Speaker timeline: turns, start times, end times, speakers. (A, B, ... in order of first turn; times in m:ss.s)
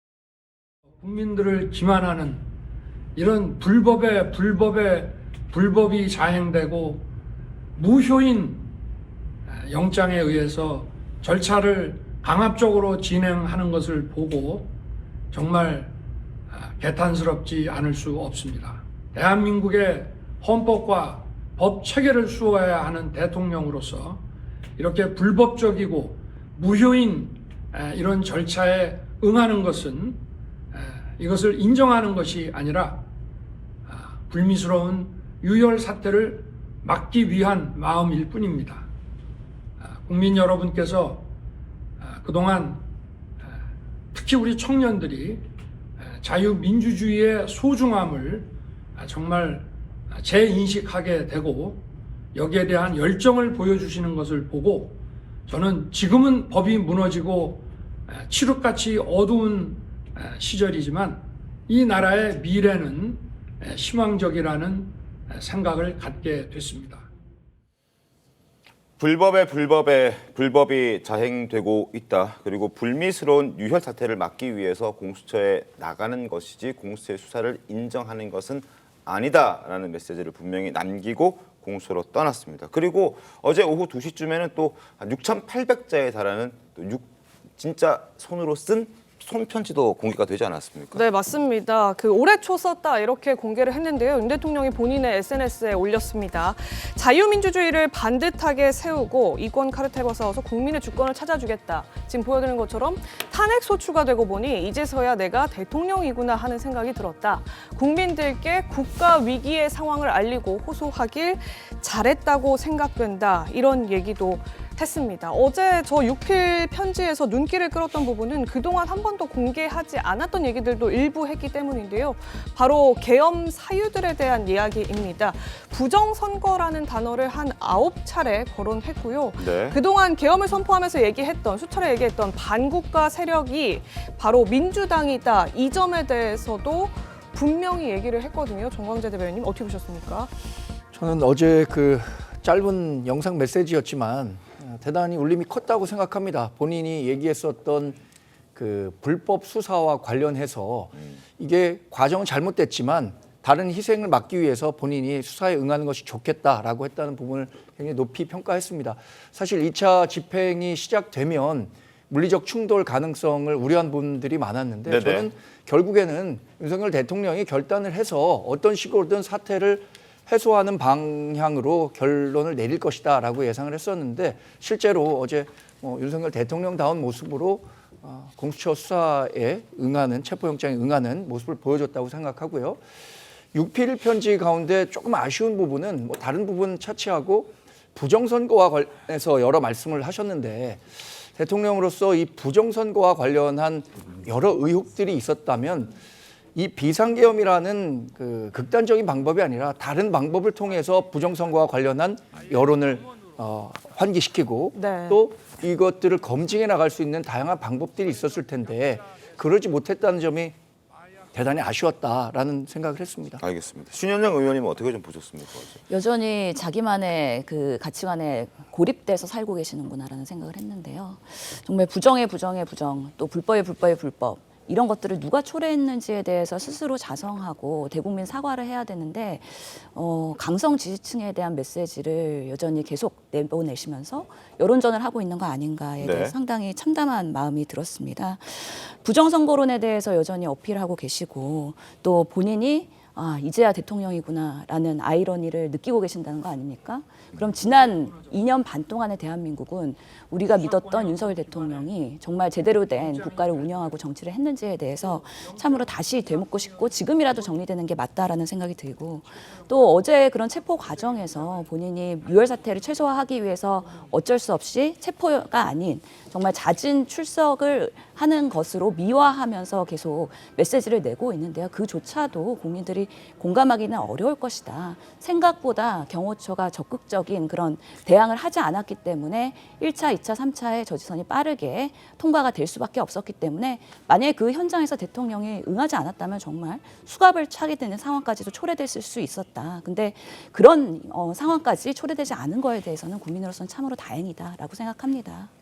0:01.0-0:02.5 A
0:03.2-0:07.1 A
0:07.8-0:08.7 A
0:09.6-0:14.7 A
0:15.3-0:15.9 A
0:16.6-0:24.2 A
0:24.8-0:30.2 A
0:30.7-0:33.0 A
0:33.9-0:38.9 A
0:39.8-0:41.3 A
0:42.0-0:42.9 A
0:44.1-0:45.5 A
0:46.2-1:07.0 A
1:09.0-1:27.1 B
1:27.6-1:31.0 B
1:30.9-2:20.3 C
2:09.4-2:09.8 B
2:20.9-2:28.0 D
2:28.6-3:02.8 D
2:44.9-2:45.3 B
3:03.5-3:10.8 D
3:11.4-3:16.0 D
3:16.6-3:30.6 D
3:24.8-3:25.2 C
3:31.3-3:33.4 D
3:33.4-3:35.8 B
3:35.9-4:55.5 E
3:56.0-3:56.3 B
4:10.6-4:11.7 A
4:15.4-4:16.3 A